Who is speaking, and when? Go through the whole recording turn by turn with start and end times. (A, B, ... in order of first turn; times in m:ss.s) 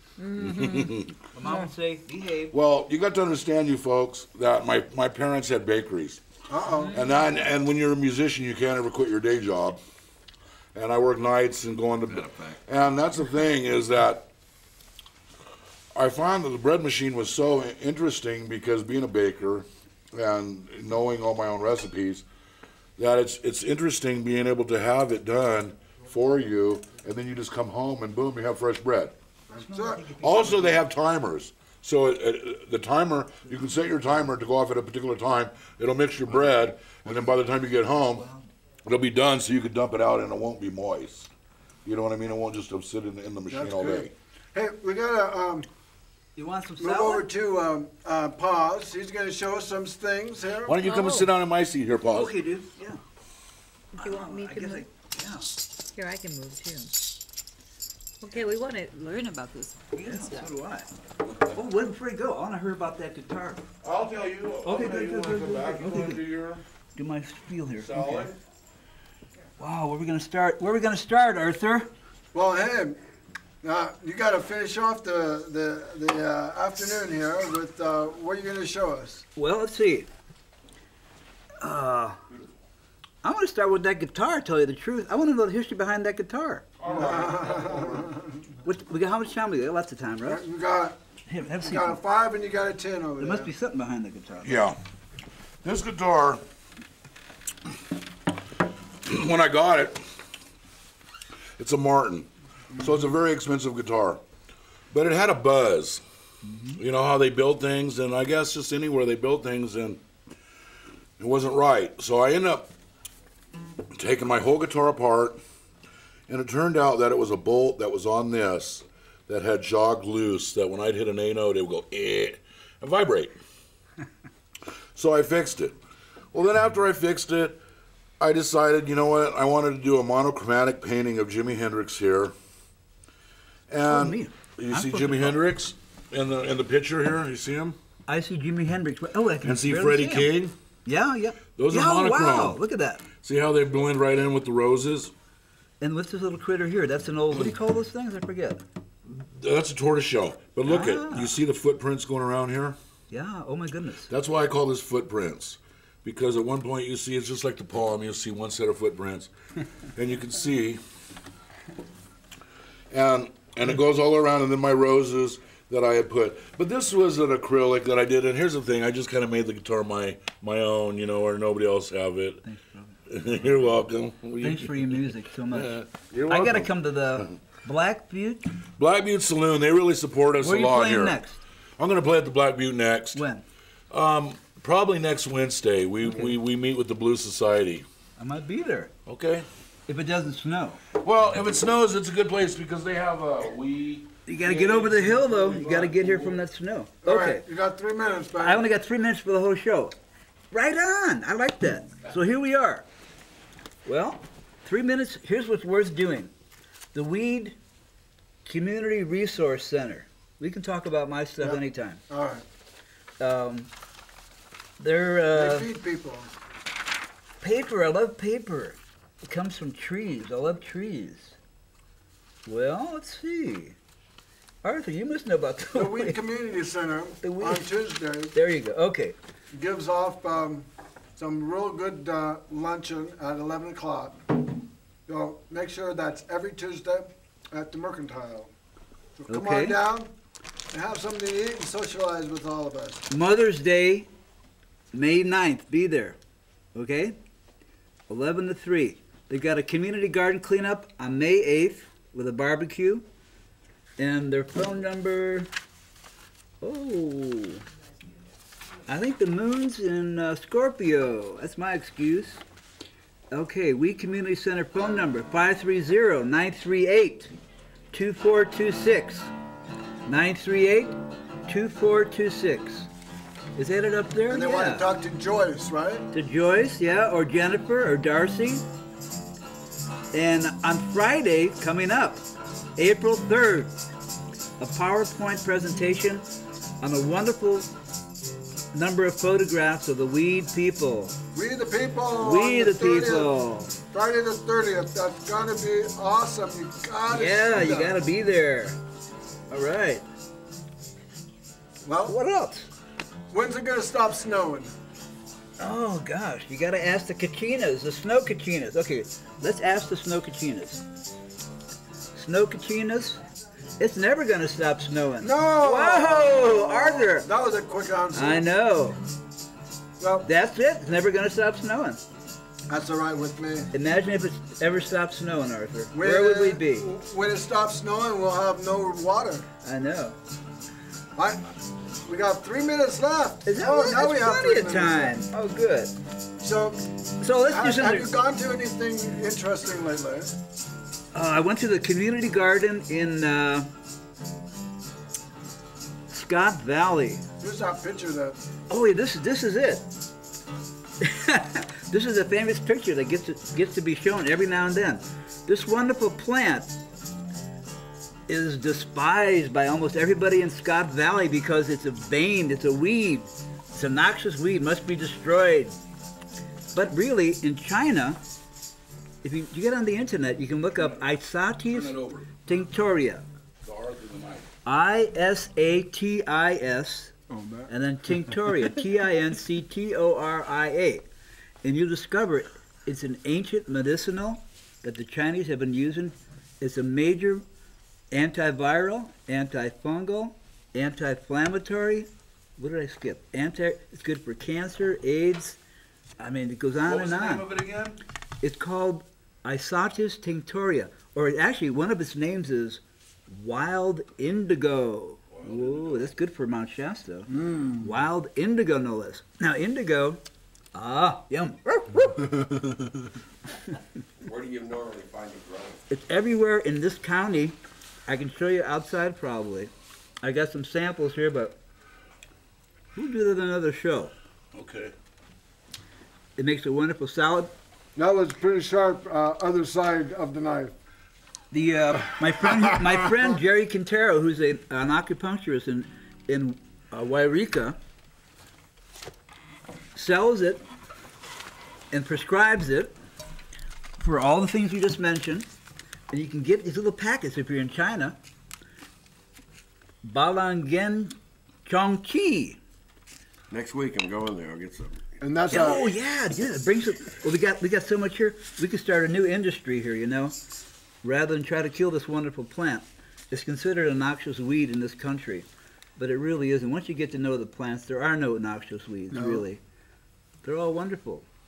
0:00.2-0:01.7 A
0:00.4-0:01.2 B
0:01.3-0:02.6 C
0:02.5-0:06.2 B
0:06.5-0:06.9 D
0:06.8-0:07.4 A
0:06.9-0:09.8 B
0:10.8-0:14.3 B
0:12.1-0:12.6 E
0:15.9-0:22.2 B
0:23.0-0:29.1 B
0:29.5-0:30.0 D
0:29.6-0:30.8 C
0:30.2-0:38.3 B
0:38.0-0:38.5 C
0:38.8-0:41.3 B
0:41.8-0:44.1 B
0:43.5-0:45.7 D
0:46.4-0:47.3 C
0:46.8-0:50.8 D
0:50.7-0:52.3 B
0:50.8-0:51.3 A
0:52.1-0:53.0 C
0:53.9-0:54.9 A
0:54.0-0:55.5 C
0:56.0-0:57.0 A
0:58.2-1:00.5 A
0:59.9-1:00.9 C
1:01.5-1:03.6 C
1:03.8-1:06.6 B
1:04.6-1:06.2 C
1:07.0-1:08.3 C
1:07.8-1:08.4 B
1:09.6-1:11.9 C
1:12.3-1:13.0 D
1:13.6-1:19.3 D
1:19.4-1:20.1 C
1:21.6-1:22.2 C
1:23.2-1:26.7 C
1:26.8-1:28.1 B
1:26.9-1:28.4 D
1:28.6-1:30.4 C
1:30.3-1:31.0 D
1:31.3-1:32.0 C
1:31.6-1:33.5 D
1:33.2-1:34.7 C
1:34.4-1:34.8 B
1:35.6-1:36.4 B
1:39.0-1:40.0 B
1:41.6-1:44.2 B
1:44.9-1:46.0 B
1:46.5-1:46.8 C
1:46.8-1:50.0 B
1:51.2-1:52.7 B
1:53.9-1:55.4 B
1:56.3-2:03.4 B
2:05.0-2:05.8 B
2:06.3-2:07.6 B
2:08.2-2:12.4 B
2:13.7-2:17.8 B
2:13.9-2:15.4 C
2:18.1-2:20.3 C
2:19.4-2:20.5 B
2:20.8-2:23.1 C
2:21.6-2:22.6 B
2:23.2-2:25.1 B
2:25.8-2:28.6 C
2:29.0-2:32.8 B
2:30.6-2:31.4 C
2:33.1-2:34.1 C
2:34.1-2:39.3 B
2:40.0-2:40.8 B
2:42.9-2:52.4 B
2:52.4-2:53.0 C
2:53.1-2:57.3 B
2:54.4-2:58.5 C
2:58.8-3:01.2 B
3:00.4-3:01.4 C
3:01.8-3:03.2 B
3:03.1-3:03.4 C
3:03.9-3:07.8 B
3:08.2-3:08.9 C
3:09.1-3:09.5 B
3:09.9-3:10.8 C
3:11.0-3:16.4 B
3:14.3-3:17.4 C
3:17.0-3:18.7 D
3:18.4-3:20.0 C
3:20.5-3:22.9 C
3:23.9-3:26.3 C
3:26.9-3:27.6 C
3:28.5-3:32.0 C
3:31.4-3:32.4 D
3:33.2-3:33.7 C
3:34.8-3:35.7 C
3:35.3-3:36.3 D
3:37.4-3:41.4 C
3:42.5-3:43.8 C
3:44.6-3:46.2 C
3:45.7-3:48.4 D
3:47.2-3:47.7 C
3:48.3-3:49.2 C
3:49.5-3:54.2 D
3:55.1-3:58.5 D
3:59.2-4:00.1 D
3:59.3-3:59.8 C
4:00.7-4:03.1 D
4:03.1-4:04.1 C
4:04.9-4:06.2 C
4:06.8-4:07.2 C
4:08.1-4:13.1 C
4:14.0-4:15.5 C
4:16.6-4:17.7 C
4:18.9-4:22.4 C
4:23.3-4:27.3 C
4:27.9-4:29.3 C
4:30.1-4:32.9 C
4:33.6-4:34.9 C
4:34.3-4:36.1 D
4:36.1-4:38.6 C
4:40.1-4:42.2 C
4:42.8-4:43.7 C
4:44.6-4:46.3 C
4:46.8-4:47.7 C
4:48.7-4:51.2 C
4:51.3-4:53.3 D
4:52.2-4:53.7 C
4:53.9-4:58.0 D
4:57.1-4:58.8 C
4:59.5-5:00.0 C
5:01.8-5:02.2 D
5:02.1-5:02.7 C
5:03.3-5:04.7 D
5:05.6-5:10.8 C
5:12.1-5:13.2 C
5:13.8-5:17.3 C
5:15.2-5:18.5 D
5:18.1-5:19.0 C
5:20.0-5:20.3 D
5:20.2-5:22.0 C
5:22.7-5:23.7 D
5:23.7-5:26.9 C
5:25.9-5:29.4 D
5:29.6-5:30.2 C
5:31.2-5:31.4 D
5:32.1-5:35.2 D
5:33.5-5:35.9 C
5:36.4-5:36.8 D
5:37.2-5:38.1 C
5:37.5-5:40.3 D
5:41.1-5:43.7 C
5:46.1-5:47.2 C
5:47.4-5:48.4 D
5:48.7-5:49.9 C
5:51.0-5:56.7 C
5:58.3-6:05.8 C
6:06.7-6:08.2 C
6:09.2-6:13.2 C
6:10.8-6:11.1 B
6:11.7-6:12.3 B
6:13.6-6:14.5 B
6:14.6-6:17.1 C
6:17.3-6:17.7 D
6:17.7-6:21.1 C
6:21.6-6:27.4 C
6:28.1-6:35.6 C
6:36.2-6:37.5 C
6:36.9-6:38.0 B
6:38.4-6:50.2 C
6:45.3-6:46.1 B
6:47.3-6:47.8 D
6:50.7-6:52.4 C
6:54.2-6:55.8 E
6:55.9-6:59.7 C
7:00.2-7:01.6 C
7:03.0-7:04.1 C
7:04.5-7:04.9 B
7:06.4-7:07.5 C
7:08.0-7:10.7 D
7:11.5-7:17.8 C
7:20.0-7:20.6 C
7:21.9-7:23.0 C
7:24.0-7:25.5 C
7:26.1-7:28.2 C
7:30.0-7:32.6 C
7:33.5-7:35.1 E
7:35.2-7:35.9 D
7:35.5-7:40.4 C
7:41.0-7:45.5 C
7:46.0-7:49.6 C
7:49.1-7:49.4 D
7:50.4-7:51.3 C